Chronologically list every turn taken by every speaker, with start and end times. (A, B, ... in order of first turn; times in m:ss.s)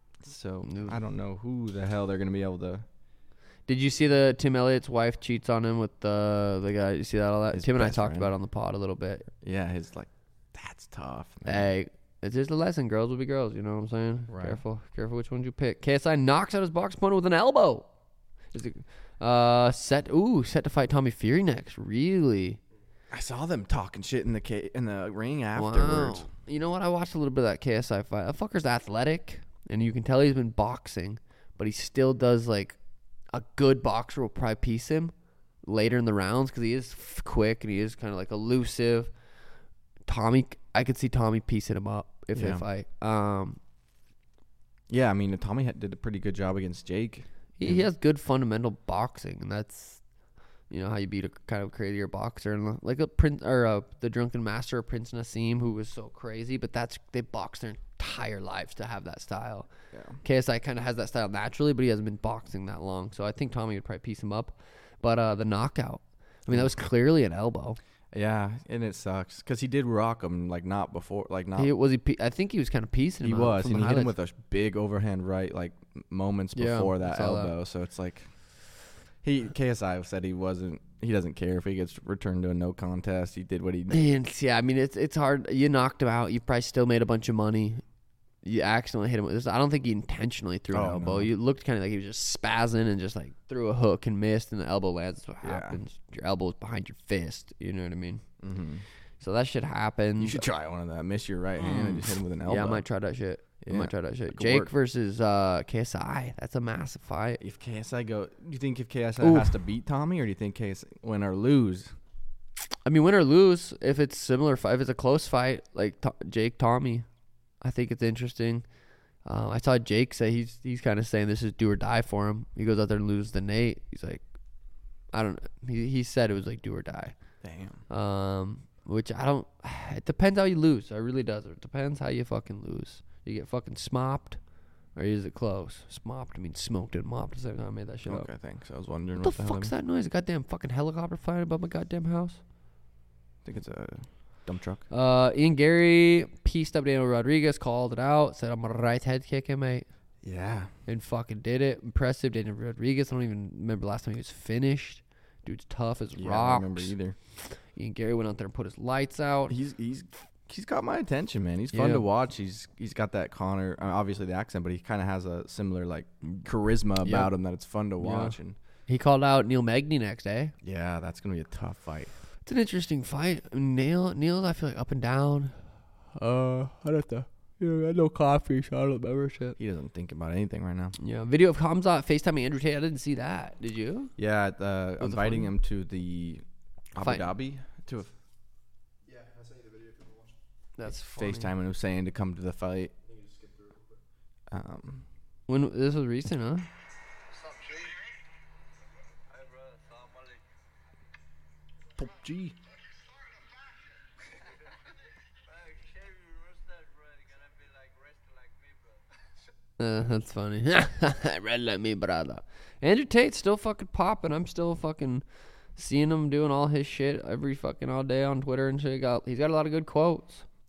0:00.2-0:02.8 A
0:00.7-0:01.0 B
0:03.7-0:09.3 B
0:07.5-0:08.3 A
0:09.4-0:11.7 A
0:11.4-0:17.9 B
0:14.3-0:14.6 A
0:18.5-0:22.6 B
0:23.1-0:26.3 A
0:25.6-0:32.8 B
0:33.3-0:35.1 B
0:35.6-0:39.1 B
0:40.1-0:43.6 B
0:42.3-0:42.6 A
0:44.9-0:47.8 A
0:47.6-0:50.0 B
0:50.7-0:59.7 B
0:59.9-1:00.2 A
1:00.2-1:07.8 B
1:08.1-1:11.7 A
1:11.6-1:14.1 B
1:13.2-1:18.4 A
1:16.6-1:17.5 B
1:19.2-1:24.0 A
1:23.9-1:27.8 B
1:28.4-1:38.2 B
1:30.7-1:31.3 A
1:35.4-1:35.8 A
1:38.4-1:38.8 A
1:39.2-1:40.4 B
1:40.2-1:42.8 A
1:41.6-1:47.4 B
1:43.6-1:44.7 A
1:47.4-1:51.9 A
1:49.2-1:49.6 B
1:52.8-1:57.1 B
1:57.6-1:58.6 B
1:59.2-2:04.2 B
2:05.1-2:07.2 B
2:07.4-2:07.8 A
2:07.9-2:14.4 B
2:15.0-2:18.3 B
2:18.0-2:19.7 A
2:19.2-2:22.4 B
2:23.4-2:24.8 A
2:24.9-2:29.9 B
2:30.2-2:30.7 A
2:30.9-2:39.6 B
2:36.2-2:37.2 A
2:39.5-2:48.6 A
2:41.7-2:42.0 B
2:47.0-2:47.3 B
2:48.0-2:48.4 B
2:48.9-2:50.5 B
2:50.6-2:52.1 A
2:52.4-2:55.6 B
2:56.1-2:59.6 B
2:59.6-3:01.0 A
3:01.0-3:04.1 B
3:04.2-3:06.4 A
3:05.0-3:05.5 B
3:07.0-3:08.1 A
3:07.0-3:07.3 B
3:09.1-3:10.4 C
3:10.8-3:11.5 B
3:10.9-3:12.9 A
3:13.0-3:14.0 C
3:14.5-3:15.1 A
3:15.5-3:16.7 B
3:22.0-3:22.6 A
3:29.8-3:40.5 B